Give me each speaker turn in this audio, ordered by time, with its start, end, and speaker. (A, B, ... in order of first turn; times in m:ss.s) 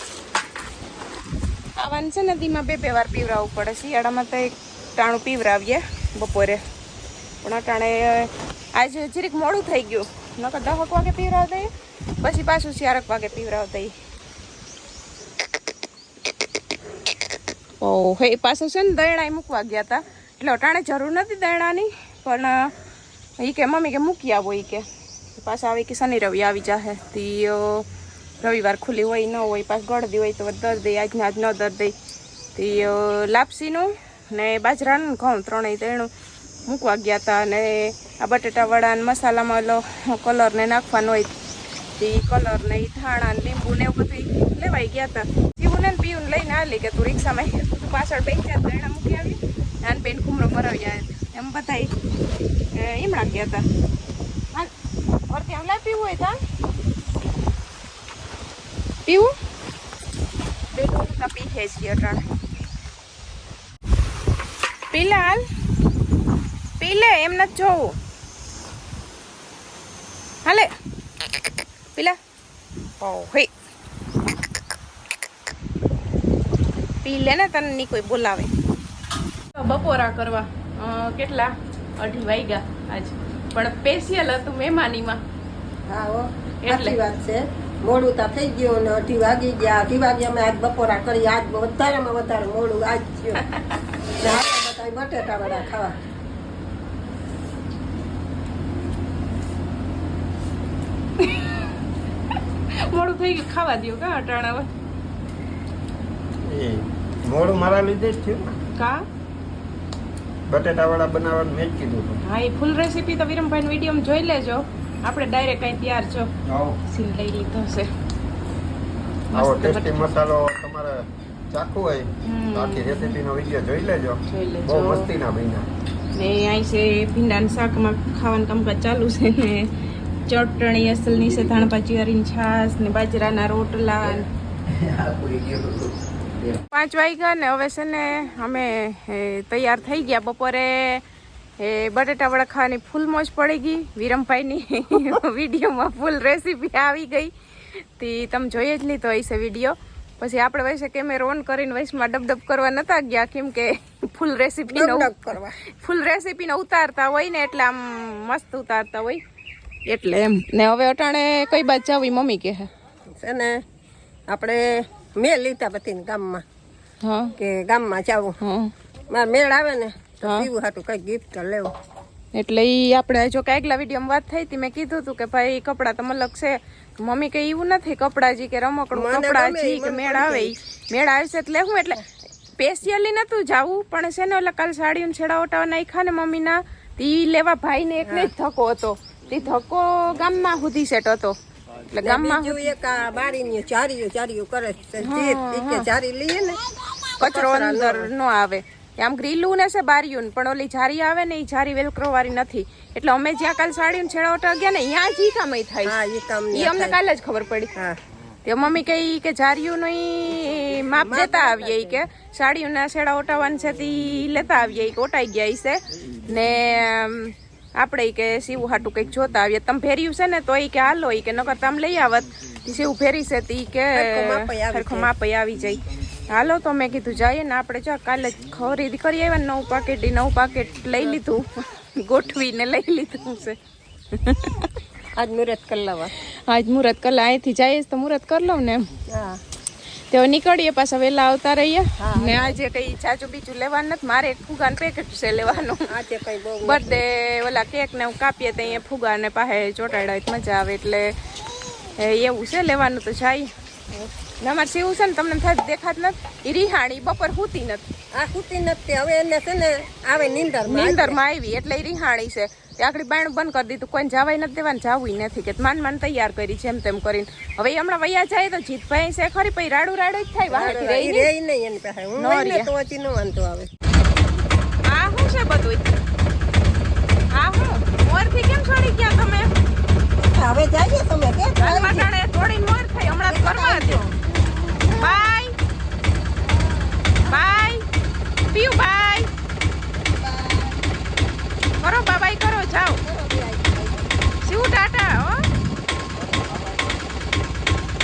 0:01.8-0:06.6 A
0:07.4-0:11.7 A
0:12.2-0:13.9 A
0:17.8-0:22.6 A
0:23.4-0:24.8 A
0:25.4-0:27.9 A
0:28.4-0:31.9 A
0:32.6-0:36.1 A
0:36.7-0:41.3 A
0:42.0-0:51.9 A
0:52.7-0:53.6 A
0:55.3-0:56.4 A
0:59.1-0:59.3 A
1:00.7-1:02.2 A
1:04.9-1:05.4 A
1:06.8-1:07.9 A
1:10.4-1:10.7 A
1:13.0-1:13.5 A
1:17.0-1:18.5 A
1:19.6-1:25.2 A
1:25.9-1:33.4 B
1:26.6-1:27.0 A
1:34.2-1:36.0 B
1:42.8-1:44.7 A
1:46.4-1:48.6 C
1:48.8-1:49.0 A
1:50.5-1:52.2 C
1:52.2-1:56.3 A
1:56.5-1:56.8 C
1:56.9-1:57.9 A
1:59.3-2:00.1 A
1:59.3-2:05.7 C
2:02.3-2:03.2 A
2:04.3-2:05.1 A
2:06.2-2:09.7 A
2:10.3-2:14.3 A
2:16.7-2:21.0 A
2:21.6-2:27.3 A
2:28.0-2:35.1 A
2:34.7-2:35.6 B
2:35.8-2:39.2 A
2:39.9-2:42.7 A
2:43.2-2:43.6 B
2:44.3-2:46.4 B
2:47.0-2:47.3 A
2:47.4-2:48.4 B
2:48.4-2:48.7 A
2:49.1-2:51.7 B
2:50.2-2:50.5 A
2:52.4-3:02.0 A
2:58.9-3:00.5 B
3:02.6-3:11.4 A
3:08.0-3:08.3 B
3:11.9-3:12.7 A
3:12.0-3:16.6 B
3:15.0-3:15.9 A
3:17.2-3:18.1 B
3:17.2-3:26.0 A
3:25.8-3:27.0 B
3:26.5-3:27.7 A
3:28.5-3:53.6 A
3:30.9-3:32.0 B
3:43.9-3:45.1 B
3:54.1-3:54.7 A
3:55.2-3:56.1 B
3:56.5-3:58.9 A
3:59.1-3:59.4 B
4:00.1-4:05.9 A
4:02.0-4:02.6 B
4:05.9-4:07.0 B
4:06.6-4:11.1 A
4:12.0-4:13.5 A
4:14.4-4:17.8 A
4:18.1-4:21.2 B
4:20.7-4:31.3 A
4:30.5-4:33.7 B
4:32.2-4:32.7 A
4:34.9-4:36.0 A
4:37.3-4:39.5 A
4:40.2-4:42.1 B
4:41.6-4:44.0 A
4:43.3-4:44.2 B
4:45.0-4:45.5 A
4:47.3-4:47.8 A
4:48.5-4:49.3 A
4:50.1-4:50.8 B
4:51.8-4:53.0 A
4:53.0-4:54.1 B
4:54.4-4:55.4 A
4:56.3-4:56.6 B